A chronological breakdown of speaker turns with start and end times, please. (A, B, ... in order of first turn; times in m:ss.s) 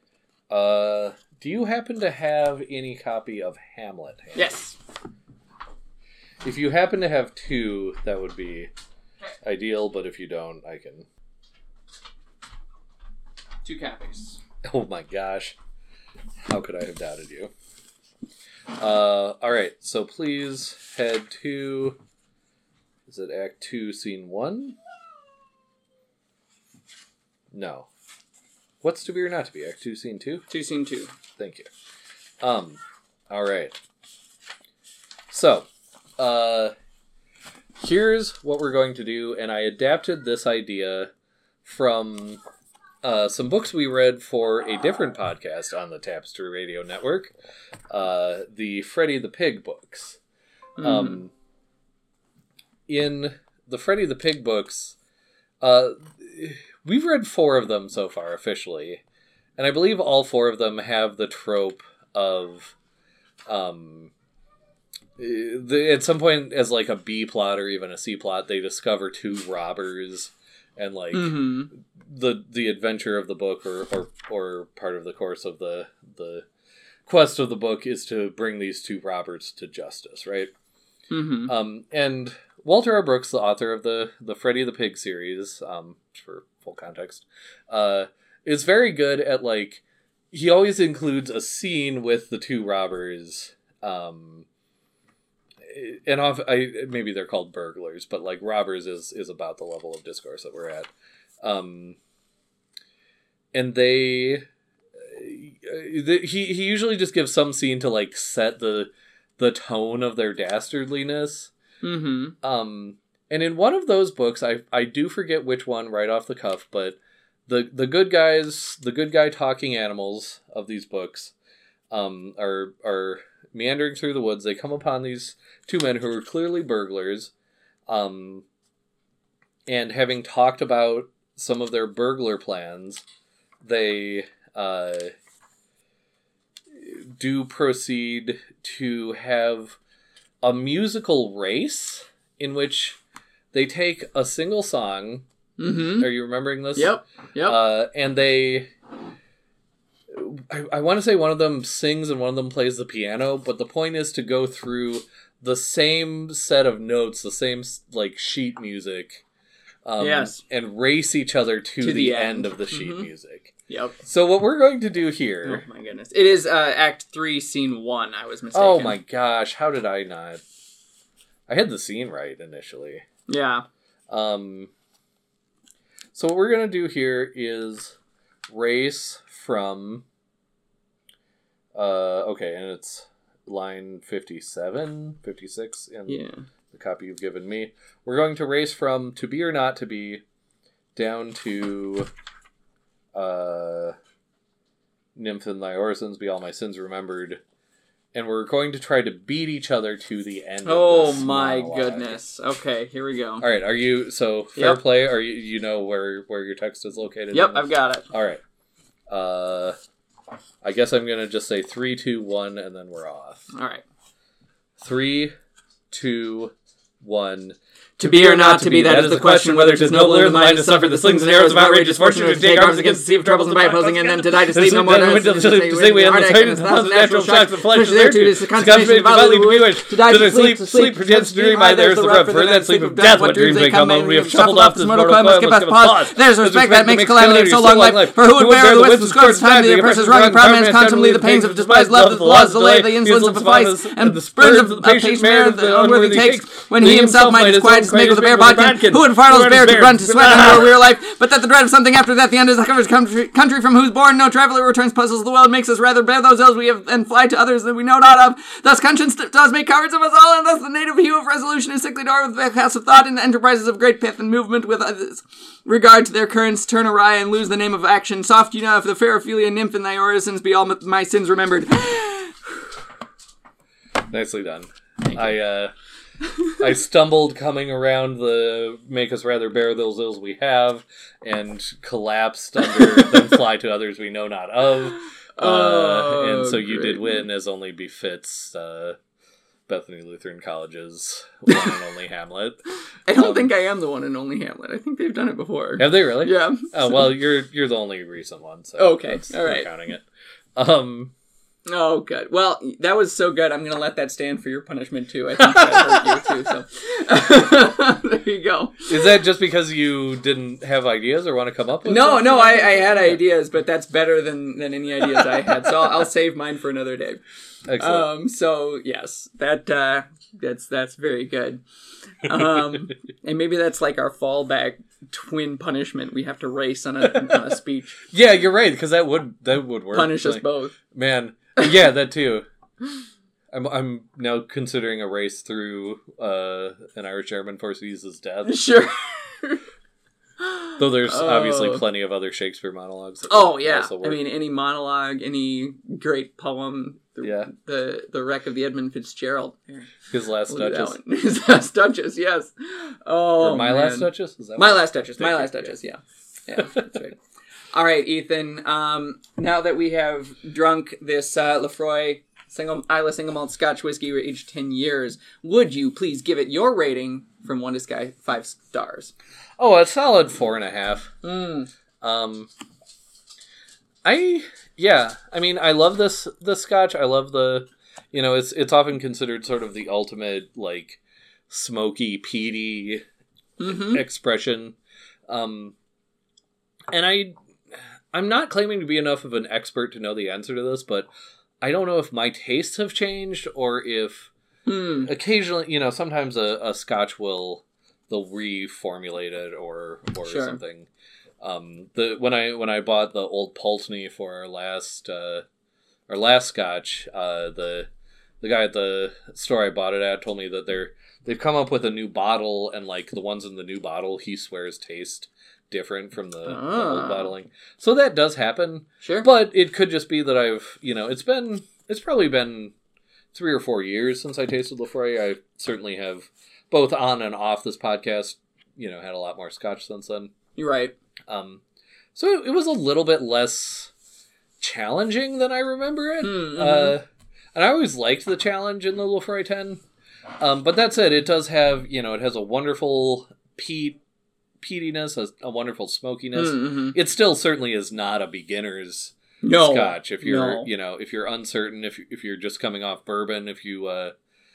0:00.5-0:04.5 A
0:04.3-0:04.8 B
0:06.4-0:08.7 A
0:09.4-0:11.0 A
0:13.6-0:14.4 B
0:14.6-0:15.6 A
0:16.4-0:17.5 A
0:18.7-0:22.0 A
0:23.1-0:24.8 A
0:27.5-0:27.9 A
0:28.8-0:30.5 A
0:30.5-0:31.1 B
0:31.4-0:31.7 A
0:32.4-0:33.8 A
0:35.3-0:36.7 A
0:37.8-0:41.1 A
0:41.6-0:42.4 A
0:43.0-0:47.3 A
0:47.9-0:50.2 A
0:50.8-0:51.2 B
0:50.8-0:51.3 A
0:52.9-0:55.0 A
0:55.6-0:59.0 A
0:59.6-1:02.7 A
1:03.4-1:04.1 A
1:05.2-1:16.5 A
1:11.1-1:11.7 B
1:17.0-1:20.5 A
1:21.1-1:21.5 B
1:21.5-1:34.4 A
1:35.6-1:40.9 A
1:41.4-1:42.0 A
1:43.5-1:44.4 A
1:45.0-1:51.5 A
1:51.8-1:52.4 B
1:52.4-2:01.3 A
2:01.9-2:07.3 A
2:07.9-2:08.4 A
2:09.7-2:13.0 A
2:13.6-2:15.1 A
2:16.7-2:19.8 A
2:20.4-2:23.0 A
2:23.5-2:25.2 A
2:25.6-2:26.1 B
2:26.0-2:28.7 A
2:26.7-2:27.6 B
2:30.1-2:39.2 A
2:39.8-2:45.6 A
2:40.0-2:40.4 B
2:41.8-2:43.1 B
2:43.7-2:44.0 B
2:45.4-2:49.0 B
2:48.5-2:50.4 A
2:51.5-2:53.0 A
2:53.3-2:53.6 B
2:54.1-2:54.7 A
2:56.1-2:58.0 A
2:58.5-3:00.0 A
3:01.7-3:10.2 A
3:06.1-3:06.4 B
3:11.0-3:12.1 A
3:13.1-3:14.0 A
3:15.1-3:17.4 A
3:18.1-3:22.2 A
3:20.6-3:23.4 B
3:23.4-3:28.4 A
3:27.3-3:28.1 B
3:29.1-3:29.8 A
3:30.6-3:33.5 A
3:33.5-3:33.8 B
3:34.8-3:35.3 A
3:35.9-4:10.8 A
3:38.0-4:32.7 B
4:34.0-4:35.7 A
4:36.5-4:49.0 A
4:45.4-4:47.2 B
4:49.7-4:53.5 A
4:51.5-4:51.7 B
4:53.0-4:57.0 B
4:55.8-5:01.1 A
4:58.8-4:59.7 B
5:01.6-5:09.1 B
5:05.4-5:06.4 A
5:08.9-5:13.2 A
5:11.8-5:17.2 B
5:15.1-5:15.7 A
5:17.6-5:18.1 A
5:17.8-5:28.0 B
5:28.1-5:32.5 A
5:29.9-5:30.8 B
5:33.5-5:38.6 A
5:38.4-5:39.6 B
5:40.4-5:41.8 B
5:40.8-5:44.2 A
5:43.3-5:49.9 B
5:47.2-5:47.5 A
5:50.1-5:51.0 A
5:50.5-5:57.2 B
5:53.4-5:55.7 A
5:57.7-6:09.1 B
6:09.6-6:11.2 A
6:11.2-6:11.7 B
6:12.0-6:12.5 A
6:14.0-6:23.0 A
6:23.6-6:24.0 B
6:23.6-6:24.8 A
6:25.3-6:25.8 A
6:26.9-6:31.1 A
6:31.6-6:34.3 A
6:34.6-6:35.1 B
6:35.0-6:40.9 A
6:40.2-6:40.6 B
6:41.4-6:45.4 A
6:46.1-6:47.9 A
6:48.4-7:02.7 A
6:56.4-6:57.3 B
6:59.0-6:59.3 B
7:03.3-7:10.3 A
7:10.6-7:10.9 B
7:11.3-7:11.6 A
7:12.1-7:13.9 A
7:14.6-7:19.8 A
7:16.2-7:17.0 B
7:20.4-7:24.0 A
7:24.6-7:34.1 A
7:26.3-7:27.0 B
7:29.4-7:30.7 B